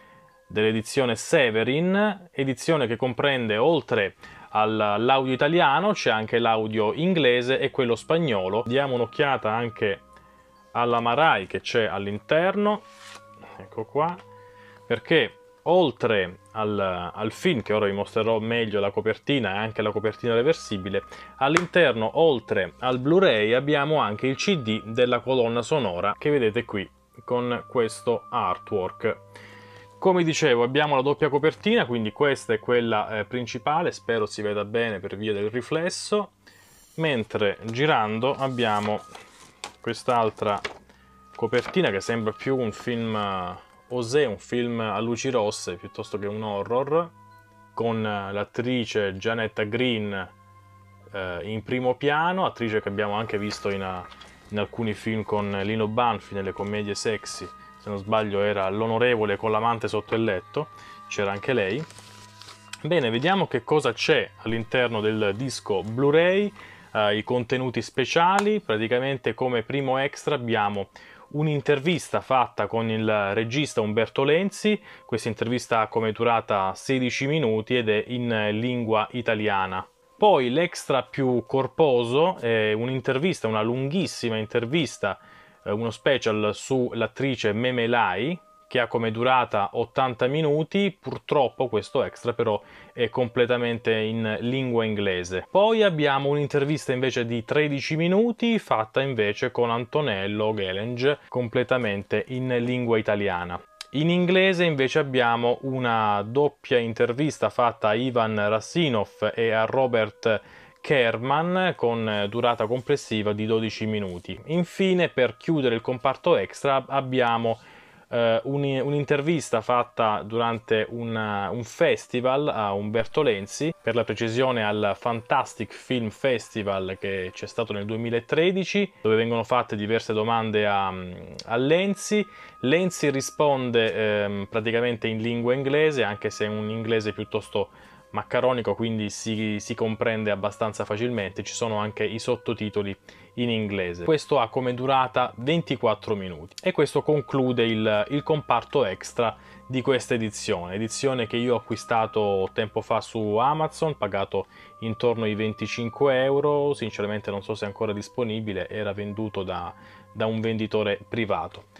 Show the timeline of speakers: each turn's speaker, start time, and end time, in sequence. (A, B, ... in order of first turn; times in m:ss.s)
0:00.5-0:10.0 A
0:10.7-0:12.8 A
0:13.6-0:14.2 A
0:14.9-0:29.2 A
0:30.0-0:36.3 A
0:37.0-0:39.0 A
0:39.8-0:40.6 A
0:41.3-0:47.1 A
0:47.7-0:50.3 A
0:51.1-1:01.9 A
1:02.8-2:41.6 A